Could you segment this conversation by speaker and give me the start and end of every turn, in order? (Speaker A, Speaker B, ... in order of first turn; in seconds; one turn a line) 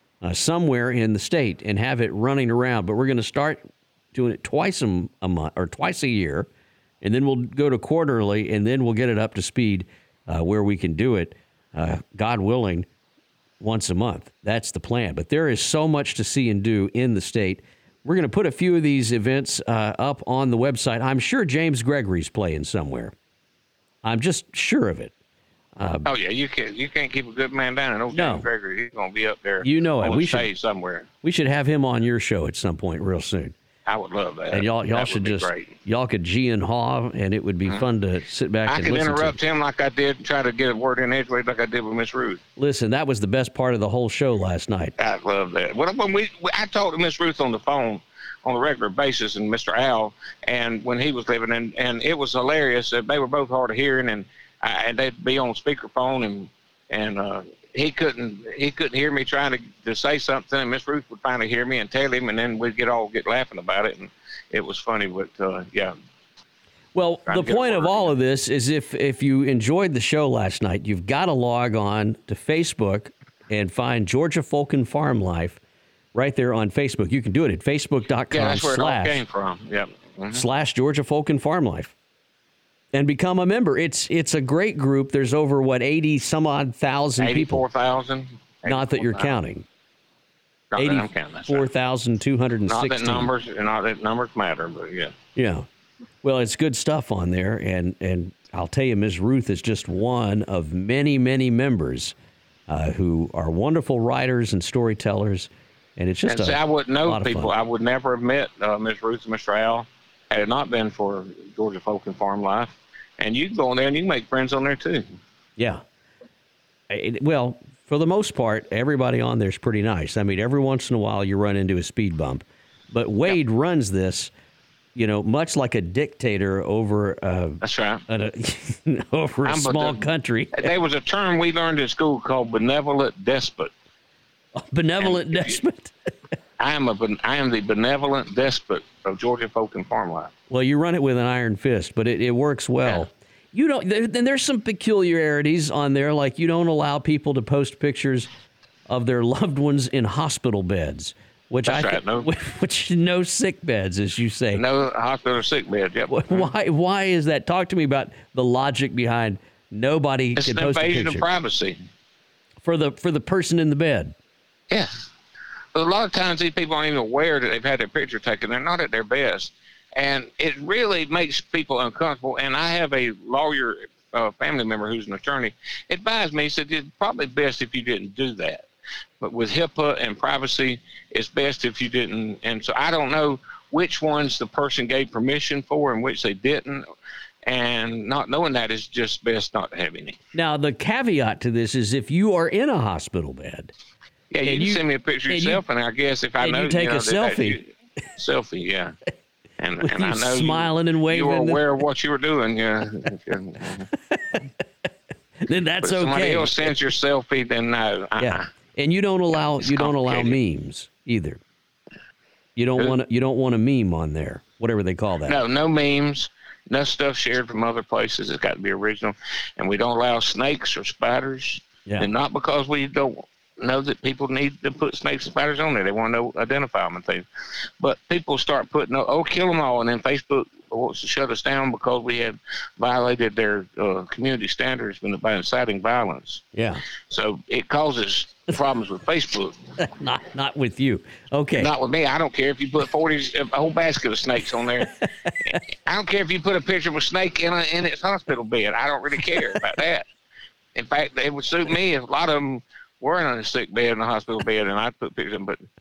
Speaker A: 0.2-3.6
Speaker A: 4.1-6.5
Speaker A: 7.0-12.9
Speaker A: 13.6-23.1
Speaker A: 24.0-25.1
Speaker A: 25.8-26.1
Speaker B: 26.0-31.1
Speaker A: 28.1-28.4
Speaker A: 29.6-30.5
Speaker A: 31.2-33.5
Speaker B: 33.9-35.7
Speaker A: 34.5-39.4
Speaker B: 38.6-42.4
Speaker A: 42.6-44.9
Speaker B: 45.0-65.9
Speaker A: 66.9-75.6
Speaker B: 67.3-68.1
Speaker A: 76.1-79.2
Speaker B: 78.3-80.4
Speaker A: 80.3-81.9
Speaker A: 82.9-87.6
Speaker B: 87.2-89.3
Speaker A: 88.6-89.6
Speaker B: 90.7-91.7
Speaker A: 90.8-93.3
Speaker B: 92.7-95.1
Speaker A: 95.3-95.7
Speaker A: 96.2-102.1
Speaker A: 102.7-107.5
Speaker B: 106.3-115.0
Speaker A: 115.6-115.8
Speaker A: 116.9-124.3
Speaker A: 124.9-130.7
Speaker B: 127.6-128.0
Speaker B: 129.4-130.0
Speaker B: 130.5-133.7
Speaker A: 134.6-135.9
Speaker B: 135.0-135.6
Speaker B: 136.6-140.3
Speaker A: 140.5-148.3
Speaker A: 148.9-154.6
Speaker B: 151.7-152.3
Speaker B: 154.5-156.5
Speaker A: 156.1-161.2
Speaker B: 160.3-161.8
Speaker A: 162.6-164.1
Speaker B: 164.7-165.1
Speaker B: 165.7-178.7
Speaker B: 179.2-186.8
Speaker B: 187.4-190.2
Speaker A: 190.3-193.7
Speaker B: 194.3-198.9
Speaker A: 194.4-195.6
Speaker A: 196.4-197.6
Speaker B: 199.6-203.9
Speaker A: 199.8-201.6
Speaker A: 204.1-204.4
Speaker A: 205.4-206.7
Speaker B: 205.8-208.5
Speaker A: 208.2-211.4
Speaker B: 209.6-210.4
Speaker A: 212.6-215.4
Speaker B: 215.2-227.2
Speaker B: 227.8-236.4
Speaker A: 236.5-236.8
Speaker B: 237.1-239.6
Speaker A: 239.8-241.7
Speaker B: 241.6-250.1
Speaker A: 244.8-245.3
Speaker A: 249.3-249.6
Speaker B: 250.7-255.6